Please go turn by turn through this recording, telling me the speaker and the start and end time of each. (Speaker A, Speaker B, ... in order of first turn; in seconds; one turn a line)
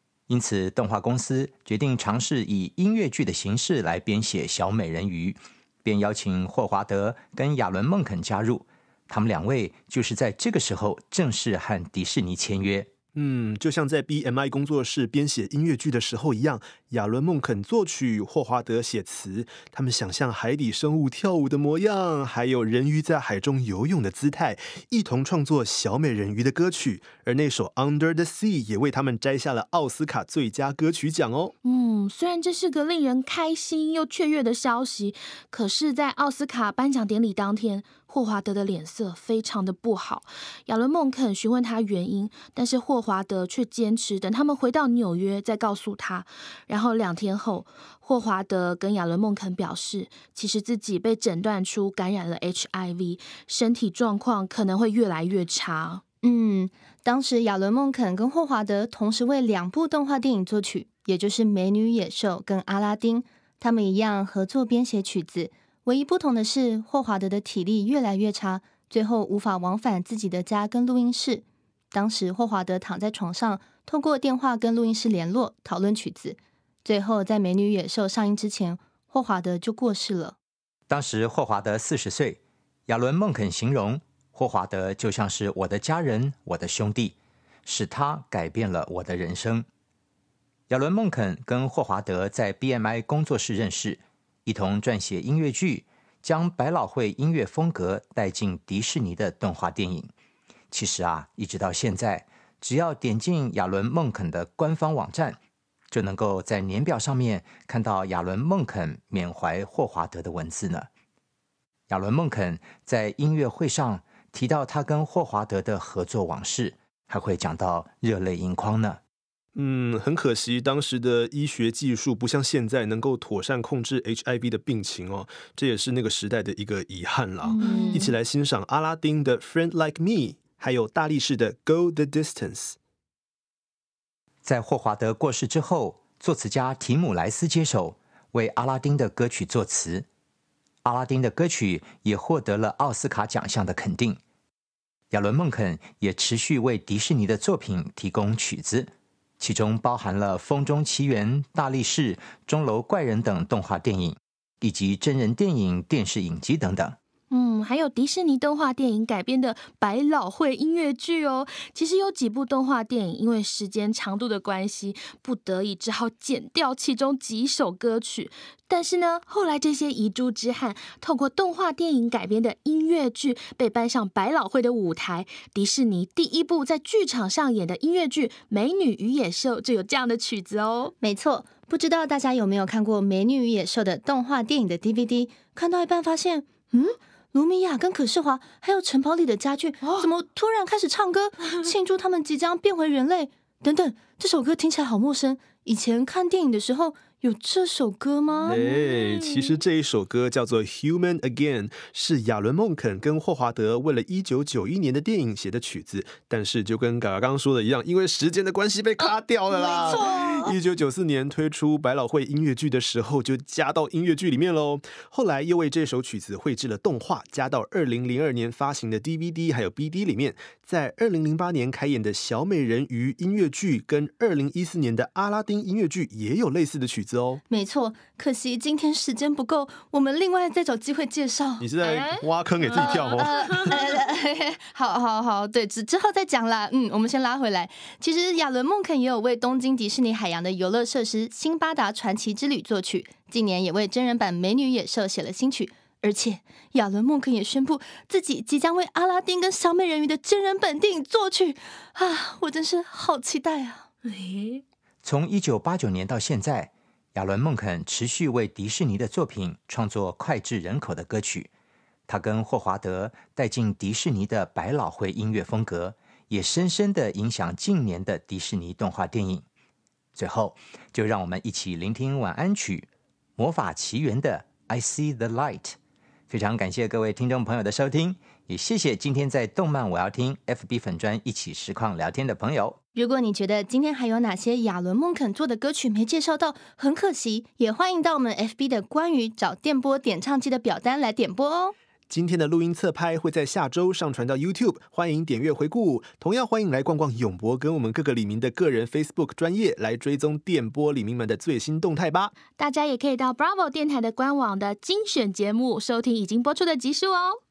Speaker A: 0.3-12.9
Speaker B: 13.2-31.5
Speaker C: 31.6-56.0
Speaker D: 56.2-80.4
Speaker A: 80.9-89.7
Speaker A: 90.7-100.1
Speaker A: 100.7-105.4
Speaker A: 105.9-110.9
Speaker A: 111.9-119.0
Speaker B: 119.5-132.8
Speaker D: 127.5-128.1
Speaker C: 127.7-128.0
Speaker A: 134.4-140.1
Speaker A: 140.8-144.2
Speaker A: 145.1-157.0
Speaker C: 157.3-180.9
Speaker D: 181.0-198.6
Speaker C: 198.4-199.6
Speaker B: 198.4-227.4
Speaker D: 209.6-210.5
Speaker D: 227.5-231.7
Speaker B: 231.6-233.8
Speaker D: 232.7-253.9
Speaker C: 254.1-254.6
Speaker A: 255.0-261.5
Speaker A: 262.1-269.4
Speaker A: 270.1-275.8
Speaker A: 276.3-282.8
Speaker D: 282.9-291.8
Speaker B: 292.1-302.4
Speaker C: 302.5-307.4